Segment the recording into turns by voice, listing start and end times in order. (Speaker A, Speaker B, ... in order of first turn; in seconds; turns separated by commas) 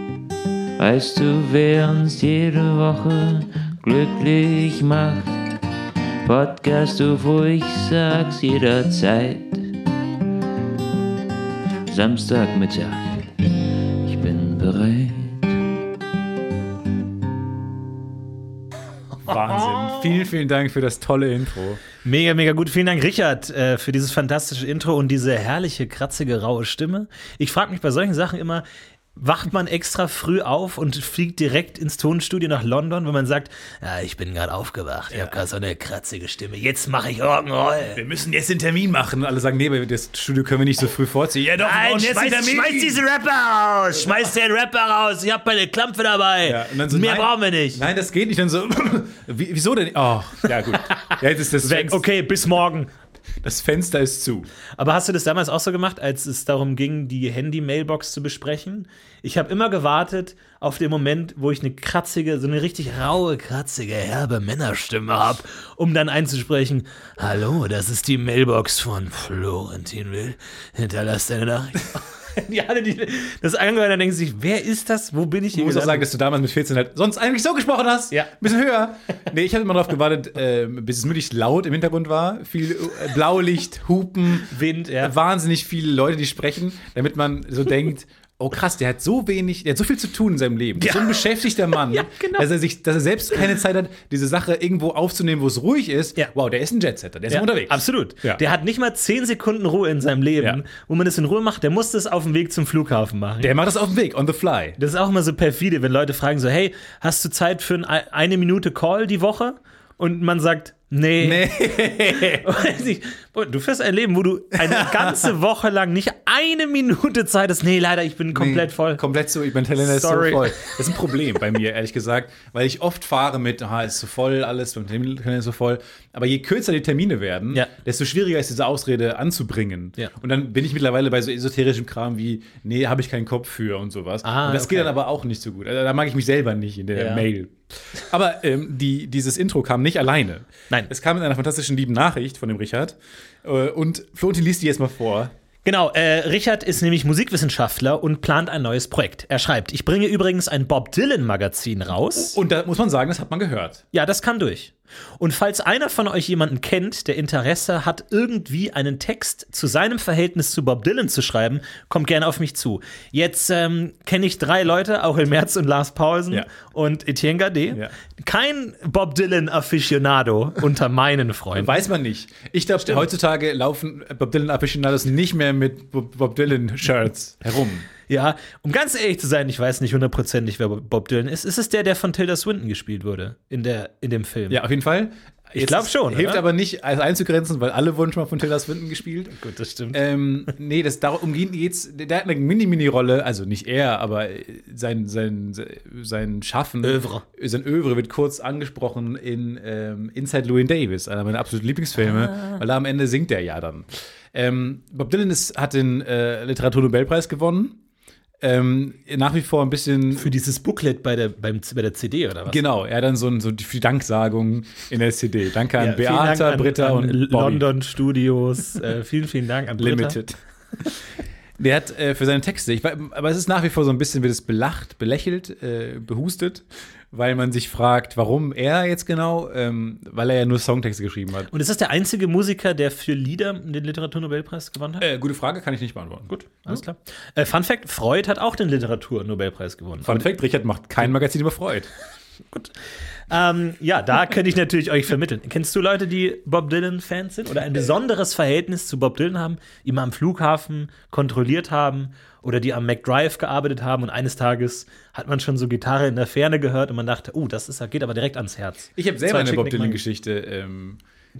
Speaker A: 0.8-5.4, Speaker A: 6.2-9.7, Speaker A: 11.9-15.6, Speaker B: 19.2-21.8, Speaker C: 19.3-19.7, Speaker C: 22.0-28.6, Speaker C: 29.1-38.0, Speaker B: 35.1-35.4, Speaker B: 37.9-43.0, Speaker C: 41.6-47.8, Speaker B: 46.4-52.0, Speaker C: 50.6-52.9, Speaker B: 53.4-54.5, Speaker C: 54.8-76.0, Speaker B: 75.5-98.4, Speaker C: 84.4-85.1, Speaker C: 90.8-92.5, Speaker C: 97.3-103.5, Speaker B: 103.4-104.8, Speaker C: 104.8-119.0, Speaker B: 111.2-112.5, Speaker B: 114.6-115.3, Speaker B: 118.3-145.3, Speaker C: 119.8-120.8, Speaker C: 134.2-134.9, Speaker C: 136.9-137.3, Speaker C: 145.6-152.3, Speaker B: 152.1-153.8, Speaker C: 153.9-171.7, Speaker B: 171.5-177.9, Speaker C: 178.1-184.6, Speaker B: 184.5-189.3, Speaker C: 185.5-186.4, Speaker C: 189.3-190.0, Speaker B: 189.9-207.8, Speaker C: 196.8-197.2, Speaker B: 208.4-210.3, Speaker C: 210.2-212.6, Speaker B: 212.5-217.7, Speaker C: 215.8-220.2, Speaker B: 219.8-220.9, Speaker B: 221.6-231.5, Speaker C: 231.5-235.1, Speaker B: 235.0-236.8, Speaker C: 236.3-240.3, Speaker B: 240.0-241.9, Speaker C: 243.3-260.0, Speaker B: 258.9-261.0